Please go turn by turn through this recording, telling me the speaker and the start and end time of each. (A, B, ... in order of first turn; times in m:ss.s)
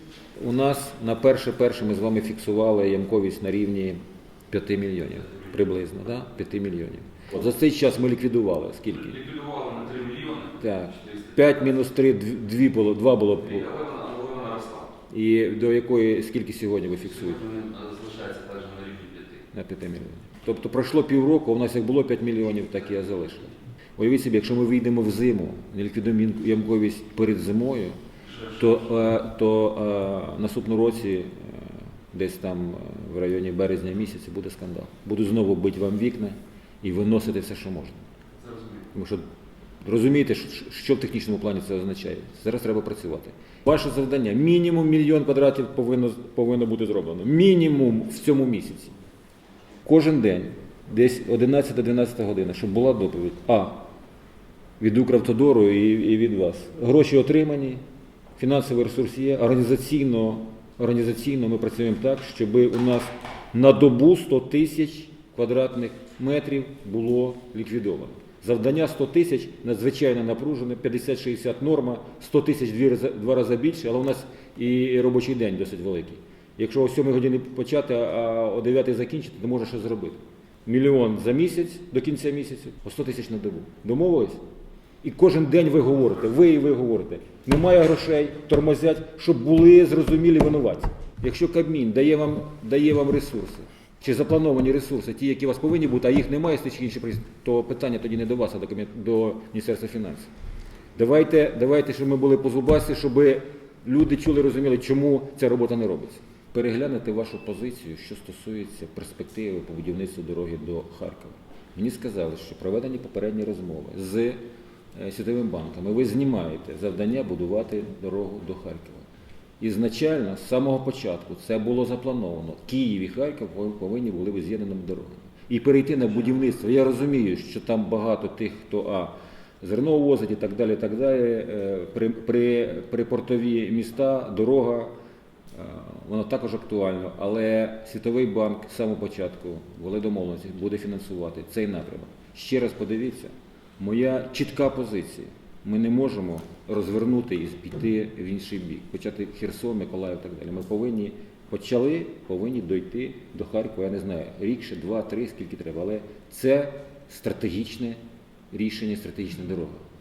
0:00.4-0:04.0 A
0:04.5-0:09.3 A
0:09.1-0:10.6 B
0:10.5-0:13.8 A
0:13.6-0:14.9 B
0:15.1-0:17.5 A
0:17.3-0:19.4 B
0:19.5-0:38.0 A
0:38.4-0:38.7 B
0:38.9-0:39.2 A
0:39.8-0:48.9 A
0:49.8-0:53.8 A
0:54.8-0:57.8 A
0:58.4-1:24.4 A
1:25.0-1:40.3 A
1:41.0-1:54.4 A
1:54.9-1:59.0 A
1:59.6-2:14.9 A
2:15.5-2:38.0 A
2:38.5-2:39.8 A